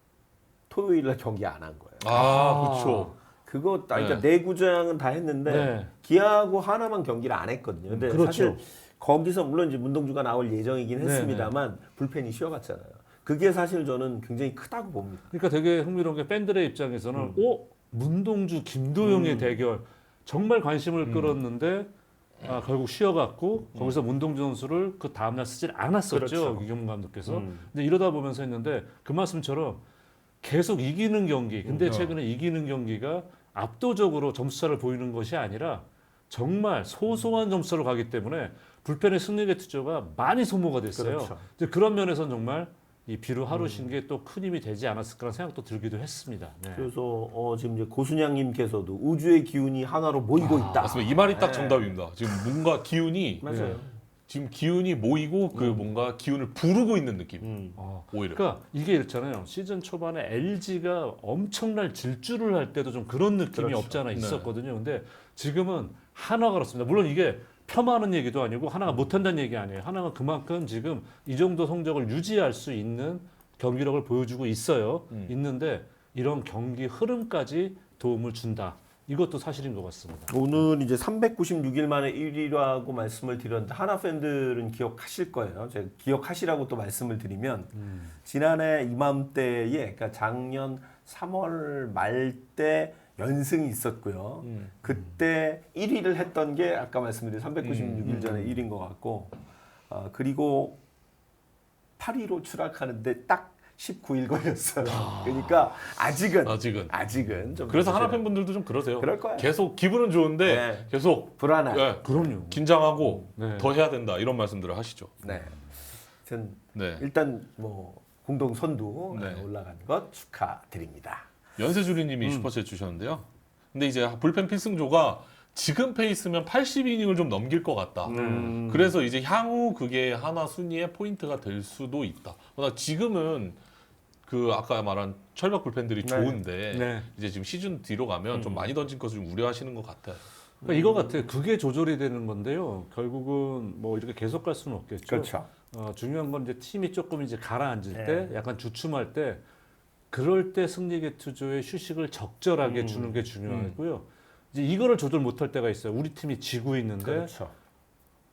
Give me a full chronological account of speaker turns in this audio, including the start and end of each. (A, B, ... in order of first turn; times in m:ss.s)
0:00.7-0:02.5 A
0:02.0-0:03.1 B
0:02.1-0:03.1 C
0:03.4-0:15.3 A
0:03.9-0:04.2 B
0:05.5-0:05.9 C
0:07.9-0:08.6 C
0:11.0-0:11.6 C
0:15.3-0:21.9 C
0:17.2-0:17.4 A
0:19.0-0:19.6 A
0:21.0-0:21.4 B
0:22.4-0:29.8 C
0:23.8-0:24.0 B
0:26.1-0:26.7 A
0:27.2-0:27.7 A
0:30.4-0:46.9 C
0:31.6-0:31.9 A
0:31.8-0:32.2 B
0:40.9-0:41.4 A
0:43.5-0:44.0 A
0:46.7-0:51.9 A
0:50.4-0:51.1 C
0:50.8-0:53.7 B
0:53.4-0:53.9 A
0:53.5-0:53.8 C
0:54.3-0:57.6 B
0:55.5-0:55.8 A
0:57.4-0:57.8 A
0:57.8-1:20.6 C
0:58.1-0:58.4 B
1:03.5-1:04.0 A
1:04.1-1:04.5 B
1:08.9-1:09.1 A
1:15.1-1:15.4 B
1:20.3-1:40.8 A
1:27.7-1:28.2 C
1:34.4-1:34.7 B
1:37.6-1:38.3 B
1:38.0-1:38.6 C
1:42.0-1:48.3 A
1:44.8-1:45.7 B
1:46.4-1:47.0 B
1:47.7-1:55.2 B
1:49.0-1:49.5 A
1:50.4-1:52.4 A
1:52.0-1:52.6 C
1:53.3-1:53.7 C
1:55.2-1:55.6 A
1:56.2-2:01.3 A
1:56.8-1:57.0 B
1:59.1-1:59.5 B
2:01.6-2:13.6 B
2:02.2-2:02.5 A
2:08.1-2:09.0 A
2:08.1-2:08.6 C
2:14.2-2:20.2 B
2:16.0-2:16.4 A
2:16.7-2:17.1 C
2:18.3-2:18.7 A
2:20.6-2:21.2 A
2:20.6-2:29.4 C
2:25.1-2:25.5 A
2:27.9-2:28.4 A
2:30.1-2:37.3 C
2:32.6-2:33.3 A
2:33.4-2:33.8 B
2:37.0-2:37.5 A